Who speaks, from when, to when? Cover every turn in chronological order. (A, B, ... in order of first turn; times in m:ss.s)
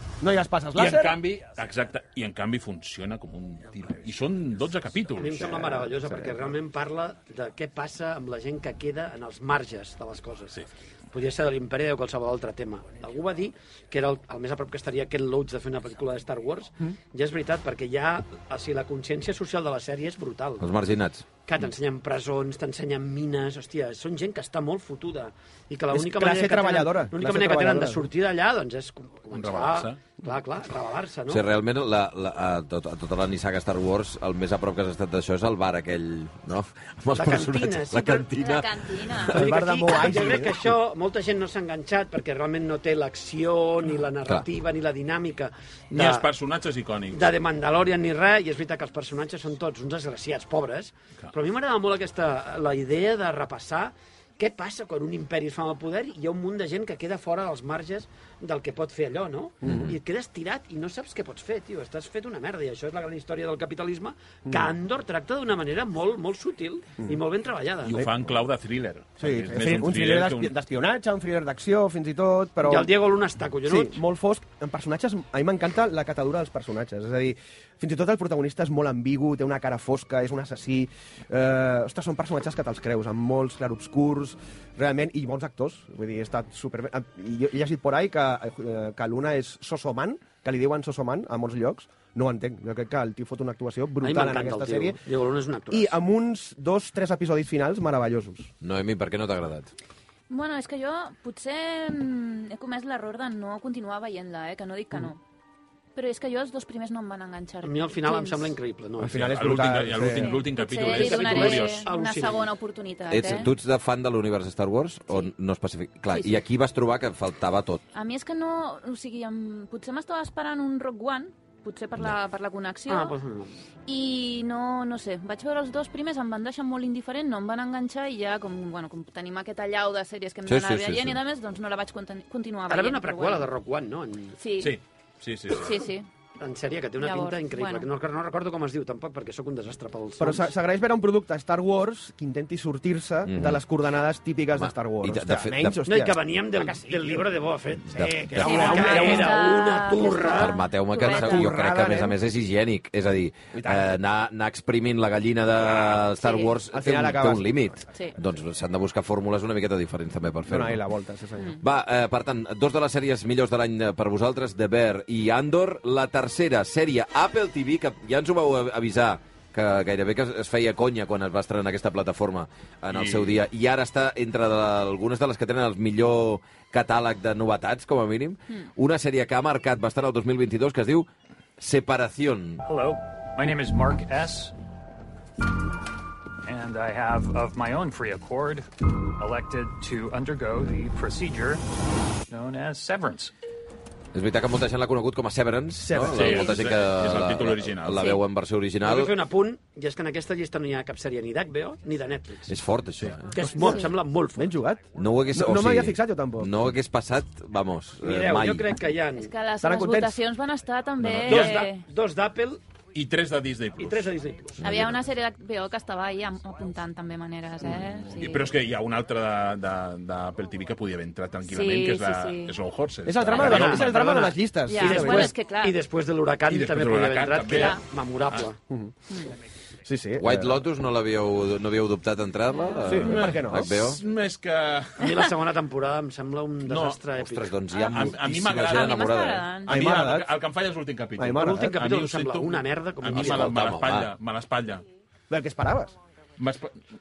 0:00.2-0:01.2 A
0:00.8-0:05.9 B
0:05.2-0:20.7 C
0:05.6-0:06.6 A
0:20.6-0:21.3 D
0:21.4-0:31.4 C
0:25.9-0:28.1 A
0:29.3-0:30.0 B
0:31.3-0:39.1 D
0:37.1-0:38.3 C
0:38.4-0:40.3 E
0:39.3-0:46.3 C
0:39.3-0:40.8 A
0:45.9-0:47.3 B
0:47.1-1:08.1 C
0:59.6-1:00.0 D
1:07.8-1:10.5 B
1:09.2-1:12.9 A
1:12.6-1:14.0 C
1:13.6-1:35.0 A
1:34.0-1:36.0 C
1:35.7-1:38.5 A
1:38.6-1:39.7 D
1:40.3-1:45.2 E
1:46.0-1:48.6 E
1:47.6-1:49.3 C
1:49.0-1:50.4 A
1:49.1-1:51.9 B
1:50.2-1:53.5 E
1:50.8-1:52.5 C
1:53.1-1:57.8 D
1:56.1-1:56.4 E
1:57.9-2:03.2 E
2:02.9-2:03.5 C
2:03.9-2:13.5 E
2:10.5-2:11.2 D
2:12.7-2:14.4 C
2:14.4-2:14.8 E
2:14.6-2:15.8 B
2:15.5-2:16.1 E
2:16.4-2:20.5 C
2:17.0-2:17.9 E
2:20.2-2:29.5 A
2:23.3-2:23.6 D
2:24.6-2:25.8 D
2:25.8-2:30.6 C
2:28.4-2:31.5 E
2:30.3-2:40.8 D
2:31.0-2:32.2 A
2:33.5-2:34.0 A
2:36.2-2:36.5 E
2:36.7-2:37.7 A
2:40.5-2:41.6 A
2:41.6-3:01.1 D
2:52.9-2:53.4 B
3:01.6-3:02.6 D
3:02.6-3:04.5 F
3:06.4-3:08.7 F
3:09.2-3:11.6 F
3:12.3-3:13.3 F
3:14.1-3:19.2 D
3:15.8-3:16.4 A
3:15.9-3:18.2 B
3:17.9-3:18.2 E
3:18.8-3:22.5 C
3:22.5-3:23.3 D
3:23.3-3:24.6 C
3:23.4-3:26.5 A
3:23.6-3:23.9 E
3:24.9-3:28.7 D
3:28.0-3:29.3 C
3:29.2-3:31.9 E
3:29.6-3:30.2 A
3:31.0-3:31.7 B
3:31.2-3:32.6 C
3:32.9-3:34.2 B
3:33.8-3:34.8 C
3:34.6-3:38.5 E
3:38.1-3:44.3 B
3:41.4-3:42.5 E
3:43.0-3:45.4 A
3:43.3-3:43.7 E
3:43.4-3:48.6 C
3:44.6-3:45.8 E
3:46.5-3:48.5 B
3:47.5-3:47.8 E
3:49.8-3:50.7 A
3:50.2-3:54.0 D
3:52.5-3:53.2 E
3:52.9-3:53.8 A
3:53.0-3:55.3 B
3:55.0-3:57.6 C
3:56.7-3:57.0 B
3:57.1-3:59.5 D
3:57.7-3:59.8 E
3:57.8-3:59.1 B
3:59.7-4:04.8 B
3:59.7-4:00.4 A
4:01.2-4:01.8 A
4:01.3-4:03.6 C
4:03.2-4:04.1 D
4:05.3-4:06.0 A
4:06.4-4:06.8 B